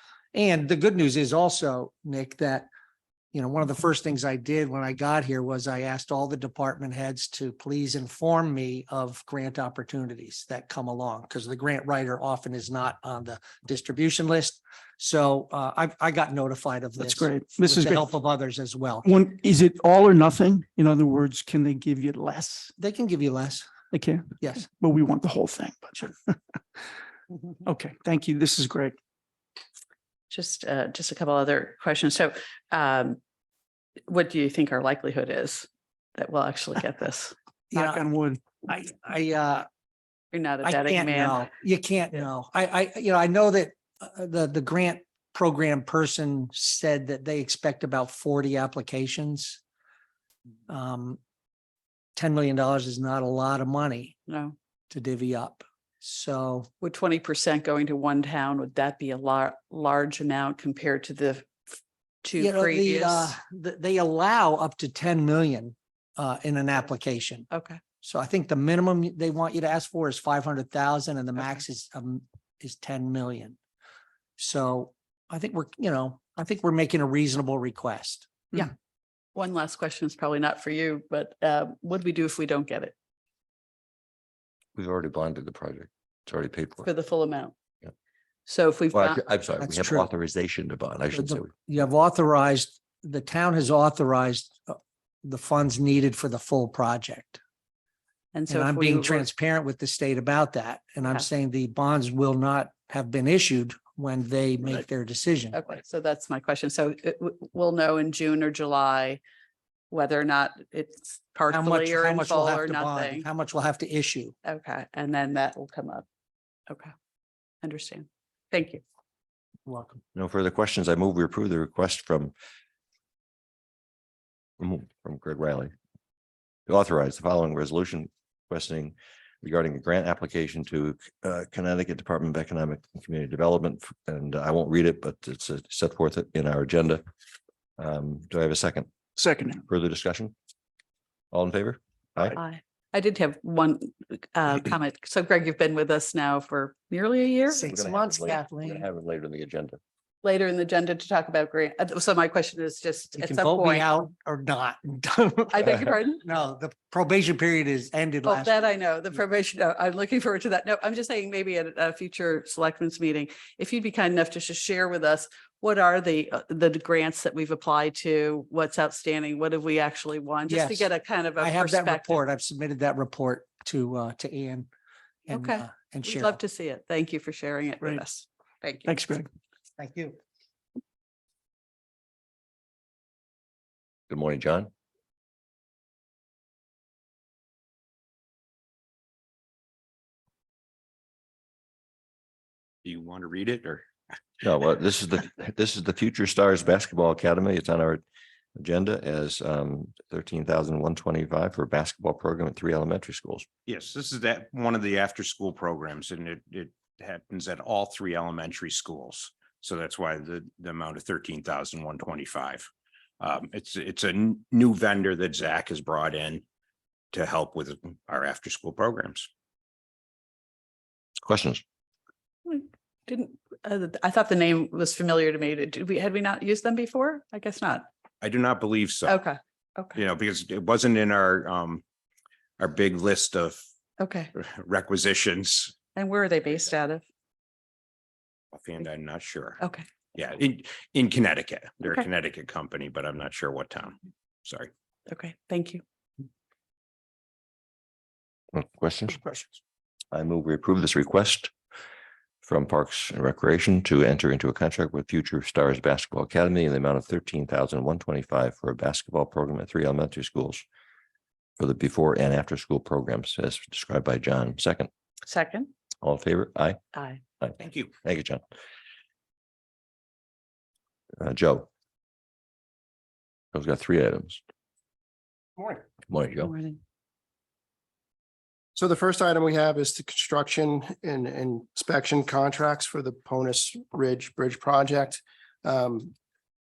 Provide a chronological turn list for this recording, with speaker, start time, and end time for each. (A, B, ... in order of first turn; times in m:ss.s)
0:00.3-0:02.7 A
0:03.3-0:19.1 A
0:17.0-0:18.1 B
0:19.0-0:22.7 B
0:22.8-0:23.7 A
0:23.9-0:26.6 B
0:24.4-0:24.7 A
0:27.6-0:29.0 B
0:30.3-0:33.2 C
0:34.1-0:37.3 C
0:37.7-0:38.1 A
0:37.7-0:38.4 B
0:38.6-0:39.7 A
0:40.3-0:41.5 C
0:40.6-0:49.6 A
0:50.7-0:51.2 A
0:52.2-0:54.2 A
0:54.3-0:54.6 C
0:54.9-0:56.7 A
0:56.8-1:01.6 C
1:02.2-1:03.4 C
1:02.4-1:07.5 A
1:07.5-1:07.8 C
1:08.0-1:13.6 A
1:14.4-1:18.7 A
1:19.4-1:22.9 C
1:24.8-1:26.9 D
1:26.8-1:27.5 C
1:28.5-1:29.2 C
1:28.9-1:31.5 D
1:29.6-1:30.1 A
1:31.1-1:37.4 A
1:38.3-1:39.3 C
1:38.5-1:45.6 A
1:45.5-1:49.2 C
1:49.9-1:53.3 C
1:51.5-1:54.4 A
1:54.4-1:56.0 C
1:57.6-1:58.8 C
1:59.7-2:00.0 A
2:00.2-2:02.3 D
2:04.6-2:05.7 D
2:06.7-2:17.0 D
2:17.8-2:18.9 D
2:19.2-2:19.6 B
2:19.7-2:20.3 D
2:21.3-2:22.4 D
2:22.4-2:27.7 C
2:27.6-2:29.8 D
2:27.6-2:28.9 A
2:30.2-2:33.9 C
2:33.2-2:38.5 A
2:35.5-2:36.2 C
2:38.2-2:52.2 C
2:50.5-2:54.7 A
2:55.3-2:56.4 A
2:55.3-2:58.9 C
2:58.8-2:59.3 B
2:59.8-3:00.2 A
3:04.1-3:04.7 D
3:12.8-3:13.8 E
3:14.4-3:18.0 D
3:18.6-3:23.5 D
3:23.7-3:32.7 E
3:33.2-3:36.4 E
3:37.1-3:39.3 E
3:41.2-3:41.6 D
3:42.5-3:47.9 C
3:48.2-3:49.2 E
3:49.1-3:50.0 C
3:50.0-3:51.8 E
3:52.6-3:53.6 E
3:54.0-3:54.3 C
3:54.4-3:55.8 E
3:56.0-3:57.0 C
3:58.5-3:59.6 E
4:00.2-4:04.7 E
4:05.1-4:05.8 C
4:08.5-4:09.2 D
4:10.1-4:11.5 D
4:12.4-4:20.6 D
4:21.6-4:24.9 D
4:25.3-4:25.7 C
4:26.0-4:26.8 D
4:27.0-4:27.2 C
4:27.4-4:28.4 D
4:27.6-4:27.9 E
4:31.2-4:31.7 D
4:33.5-4:34.4 D
4:35.6-4:35.8 F
4:36.1-4:36.5 D
4:36.4-4:36.8 C
4:38.8-4:46.1 F